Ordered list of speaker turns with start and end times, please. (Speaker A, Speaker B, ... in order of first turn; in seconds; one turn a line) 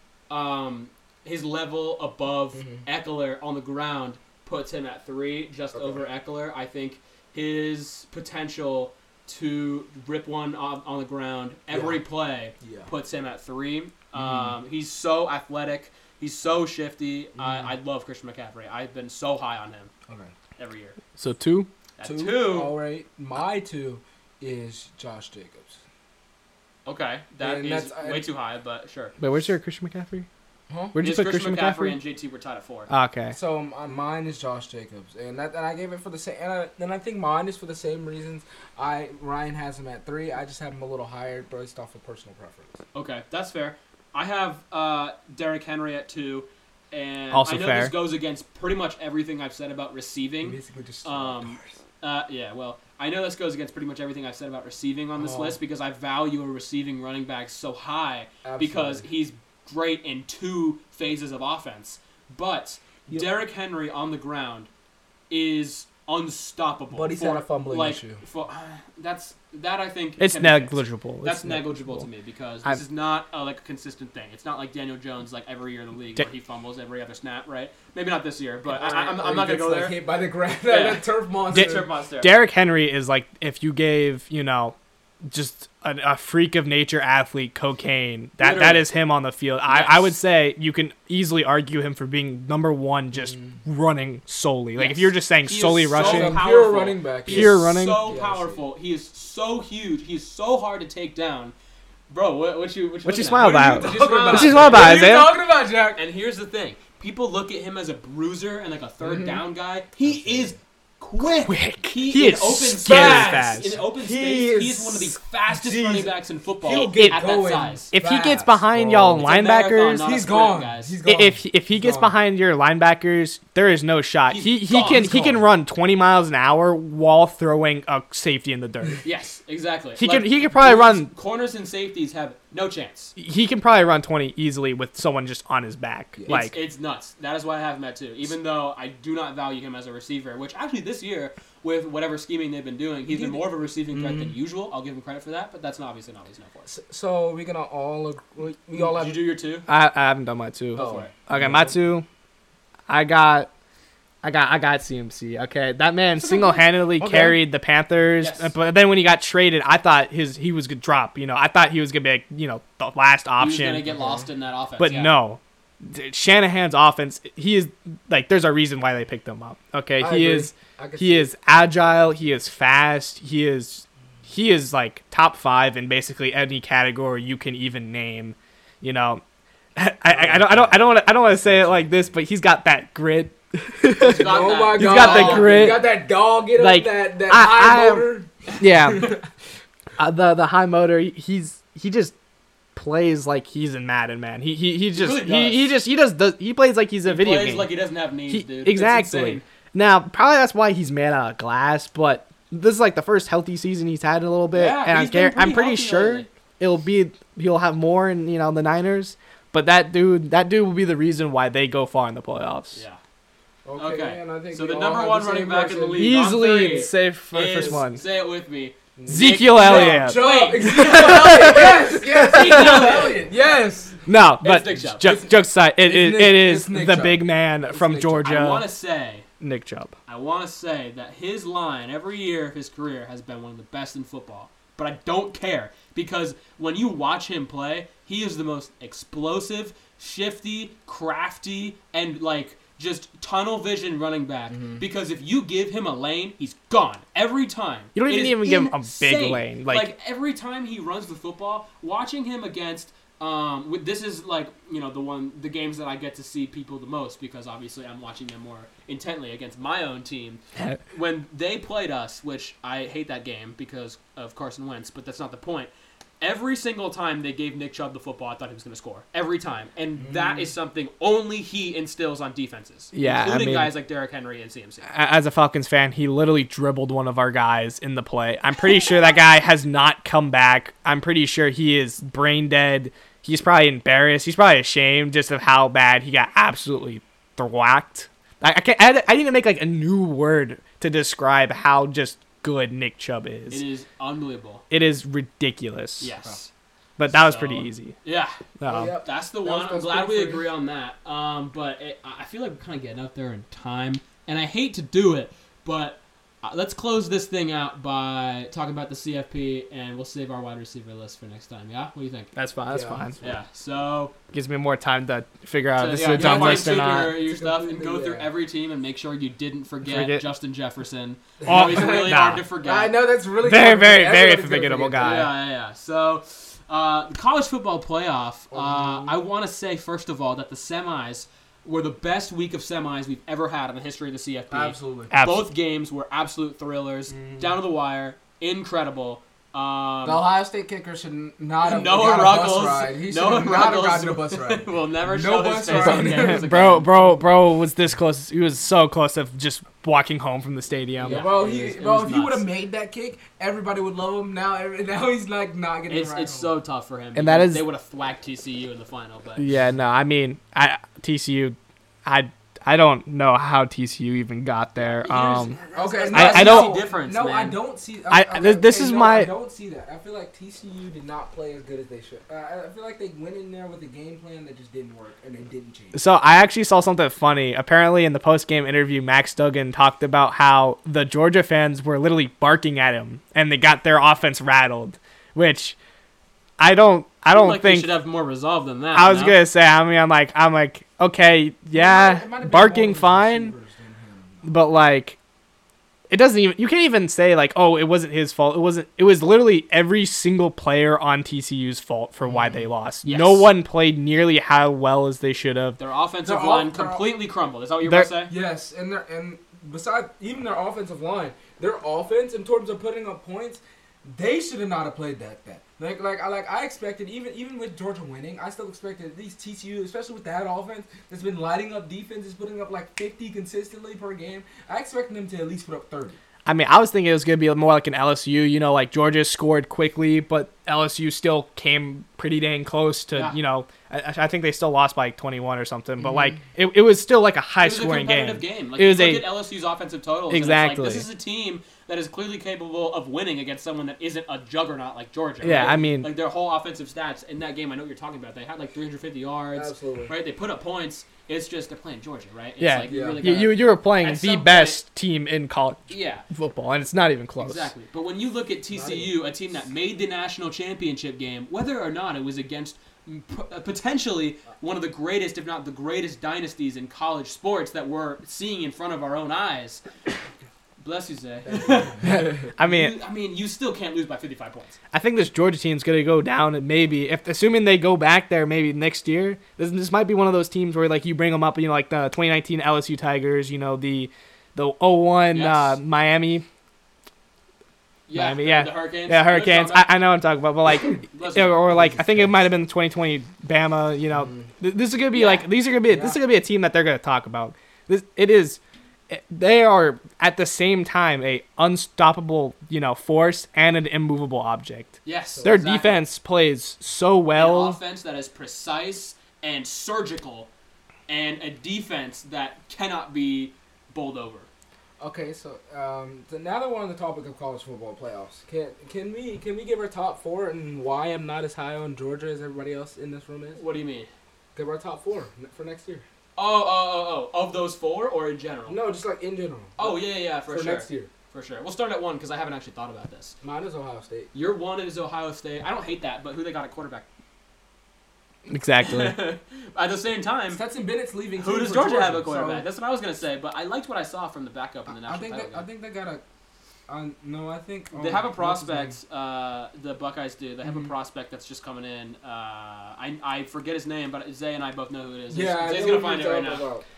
Speaker A: 0.3-19.9
Speaker B: 2.6-2.8
Speaker B: 5.8-6.0
Speaker B: 11.7-12.0
Speaker B: 12.6-12.9
Speaker B: 14.2-14.6
Speaker B: 17.4-17.7
Speaker A: 20.6-21.0
Speaker C: 21.2-21.7
Speaker A: 22.0-22.8
Speaker B: 22.0-25.8
Speaker A: 26.9-29.1
Speaker B: 27.4-28.3
Speaker C: 29.2-30.3
Speaker B: 30.7-31.0
Speaker C: 30.9-32.0
Speaker A: 31.0-32.9
Speaker C: 32.9-33.4
Speaker B: 33.3-42.8
Speaker A: 42.9-64.7
Speaker C: 47.3-48.0
Speaker B: 50.4-51.7
Speaker B: 55.2-55.6
Speaker B: 58.4-59.1
Speaker A: 65.3-80.0
Speaker B: 66.9-68.2
Speaker C: 70.2-72.1
Speaker B: 78.7-81.9
Speaker A: 80.7-82.3
Speaker C: 81.5-96.4
Speaker A: 88.4-88.9
Speaker A: 89.7-90.2
Speaker B: 93.2-93.6
Speaker A: 94.8-101.5
Speaker B: 95.9-98.6
Speaker C: 97.3-98.0
Speaker A: 102.1-105.3
Speaker C: 103.0-105.4
Speaker B: 103.3-106.0
Speaker A: 106.0-117.9
Speaker B: 109.0-109.4
Speaker B: 110.0-110.6
Speaker C: 111.2-113.8
Speaker B: 112.9-119.3
Speaker C: 117.9-120.0
Speaker A: 119.2-121.0
Speaker B: 120.0-122.1
Speaker C: 121.0-129.0
Speaker A: 124.3-125.5
Speaker A: 129.0-133.1
Speaker C: 130.0-131.1
Speaker C: 133.2-136.6
Speaker B: 136.2-136.4
Speaker A: 136.3-146.7
Speaker B: 143.1-144.4
Speaker B: 146.7-149.2
Speaker A: 148.8-149.7
Speaker C: 149.7-152.1
Speaker A: 150.8-151.1
Speaker B: 150.8-151.8
Speaker C: 152.9-153.5
Speaker C: 154.2-163.9
Speaker B: 156.2-157.4
Speaker A: 158.2-158.5
Speaker A: 163.4-165.2
Speaker B: 163.9-164.3
Speaker C: 164.8-179.2
Speaker B: 170.0-172.0
Speaker C: 179.8-185.9
Speaker B: 180.1-180.9
Speaker B: 181.4-182.0
Speaker A: 184.0-185.8
Speaker B: 184.0-189.3
Speaker C: 186.6-188.1
Speaker C: 188.6-189.2
Speaker C: 190.0-192.1
Speaker C: 192.8-197.7
Speaker A: 195.0-195.8
Speaker A: 197.1-199.4
Speaker C: 198.3-212.8
Speaker A: 204.5-206.3
Speaker A: 212.7-213.0
Speaker B: 213.7-216.9
Speaker A: 213.8-223.2
Speaker C: 216.0-218.0
Speaker B: 219.0-224.0
Speaker C: 219.1-223.1
Speaker C: 224.1-228.7
Speaker A: 224.4-225.2
Speaker B: 225.0-228.3
Speaker A: 228.2-229.3
Speaker C: 229.4-229.9
Speaker A: 230.1-274.9
Speaker B: 244.5-244.8
Speaker C: 247.9-249.9
Speaker B: 270.0-270.5
Speaker C: 272.9-273.7
Speaker C: 274.9-293.6
Speaker A: 293.5-294.6
Speaker C: 294.7-296.1
Speaker A: 296.0-296.5
Speaker C: 297.0-297.9
Speaker A: 297.1-312.3
Speaker C: 298.6-298.9
Speaker B: 298.7-300.5
Speaker C: 312.4-313.2
Speaker B: 312.7-313.4
Speaker A: 313.2-314.1
Speaker C: 314.3-317.1
Speaker A: 315.8-323.0
Speaker B: 316.1-318.3
Speaker C: 319.8-320.3
Speaker B: 321.4-325.3
Speaker C: 321.5-322.4
Speaker C: 323.4-325.3
Speaker A: 325.0-340.3
Speaker B: 328.5-329.2
Speaker B: 334.5-335.1
Speaker C: 335.1-335.5
Speaker B: 337.1-337.6
Speaker B: 340.0-346.8
Speaker A: 341.6-346.9
Speaker C: 345.7-351.2
Speaker A: 351.0-352.5
Speaker B: 351.0-356.5
Speaker A: 355.9-359.5
Speaker C: 357.1-357.6
Speaker C: 359.4-365.6
Speaker A: 364.8-367.6
Speaker B: 365.7-376.0
Speaker C: 366.1-366.8
Speaker C: 368.1-369.3
Speaker C: 375.9-385.8
Speaker C: 386.6-387.9
Speaker A: 387.3-389.4
Speaker C: 388.9-393.5
Speaker B: 391.7-394.6
Speaker C: 394.5-395.2
Speaker C: 396.1-405.8
Speaker B: 402.2-402.6
Speaker A: 403.0-403.5
Speaker A: 405.8-408.3
Speaker B: 406.2-407.2
Speaker C: 407.8-408.1
Speaker B: 408.3-426.2
Speaker C: 426.5-439.3
Speaker B: 436.1-436.3
Speaker A: 437.6-454.8
Speaker C: 440.3-441.1
Speaker C: 445.4-446.1
Speaker B: 449.5-450.1
Speaker C: 452.6-457.7
Speaker B: 452.9-453.4
Speaker A: 455.9-456.2
Speaker A: 457.4-469.8
Speaker B: 458.7-459.2
Speaker A: 470.8-474.8
Speaker B: 471.5-472.3
Speaker C: 472.0-473.0
Speaker C: 474.9-486.5
Speaker A: 485.3-485.8
Speaker A: 488.1-489.9
Speaker C: 488.1-507.8
Speaker A: 491.1-491.9
Speaker B: 491.7-492.3
Speaker B: 494.2-494.5
Speaker A: 495.1-495.5
Speaker B: 495.9-496.2
Speaker A: 505.1-506.0
Speaker A: 507.4-510.5
Speaker A: 511.1-514.5
Speaker B: 515.0-523.6
Speaker A: 523.6-524.1
Speaker B: 524.5-526.0
Speaker A: 526.4-528.8
Speaker B: 528.7-531.1
Speaker A: 529.8-533.4
Speaker B: 533.4-534.3
Speaker A: 534.3-537.0
Speaker C: 538.5-539.2
Speaker A: 538.8-540.6
Speaker B: 540.5-542.7
Speaker A: 541.4-545.7
Speaker B: 544.9-546.2
Speaker B: 546.9-549.0
Speaker A: 547.9-556.7
Speaker B: 550.6-550.9
Speaker B: 555.3-556.9